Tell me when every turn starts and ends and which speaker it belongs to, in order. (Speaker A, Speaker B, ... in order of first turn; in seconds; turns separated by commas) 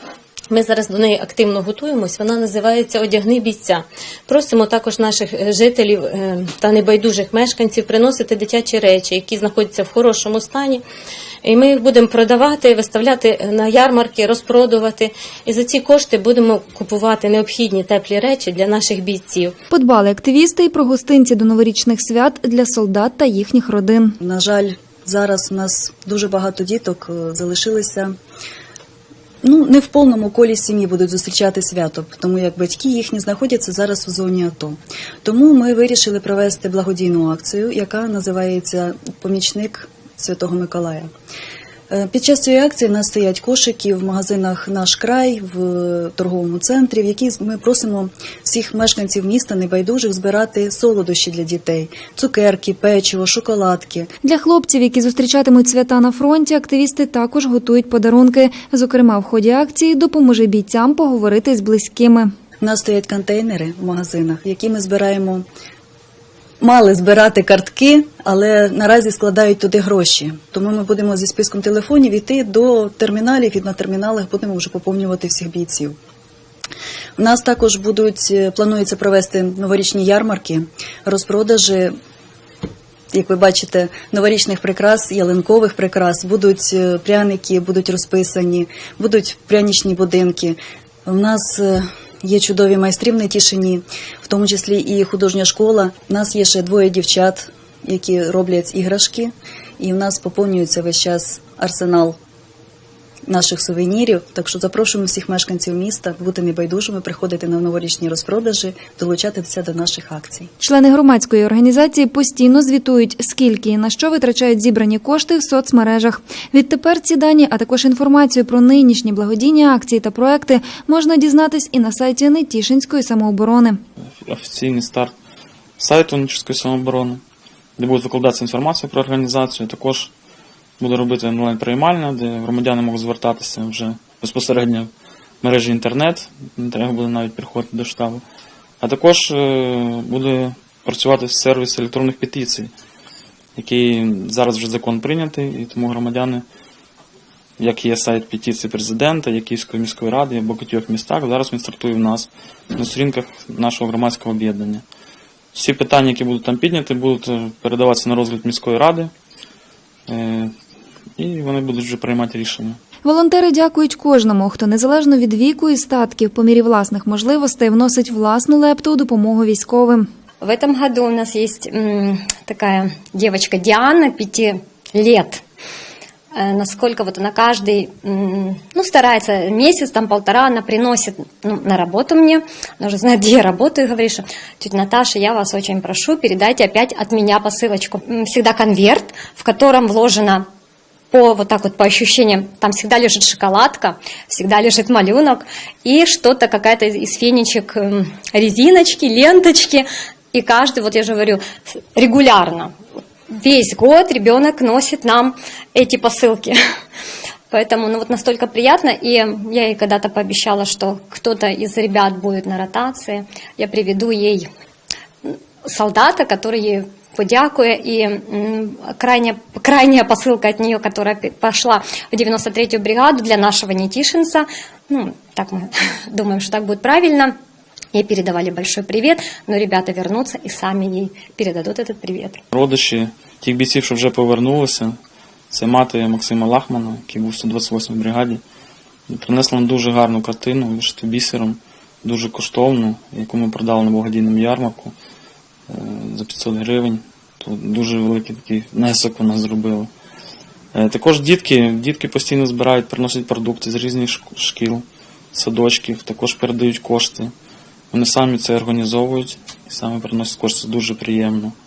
Speaker A: 0.5-10.8, Speaker A: 11.4-19.5, Speaker B: 19.7-24.2, Speaker C: 24.2-28.1, Speaker C: 29.4-41.1, Speaker C: 41.9-54.1, Speaker B: 54.2-62.3, Speaker C: 62.6-65.4, Speaker C: 66.6-76.0, Speaker C: 77.2-81.9, Speaker C: 83.1-102.2, Speaker C: 103.3-110.5, Speaker B: 110.6-123.8, Speaker D: 124.2-125.1, Speaker D: 125.8-127.2, Speaker D: 127.8-130.1, Speaker D: 130.8-134.9, Speaker D: 135.4-138.2, Speaker D: 138.8-142.7, Speaker D: 143.6-146.4, Speaker D: 147.6-154.8, Speaker D: 155.5-159.1, Speaker D: 160.1-160.5, Speaker D: 161.2-162.8, Speaker B: 163.1-170.1, Speaker E: 170.4-175.4, Speaker E: 176.3-190.5, Speaker E: 191.1-201.4, Speaker E: 201.9-202.7, Speaker E: 203.3-206.6, Speaker E: 207.5-214.5, Speaker E: 215.2-227.3, Speaker E: 227.9-232.4, Speaker D: 232.5-235.0, Speaker D: 235.5-238.4, Speaker D: 239.1-244.9, Speaker D: 245.7-249.9, Speaker D: 250.7-257.3, Speaker D: 257.9-261.5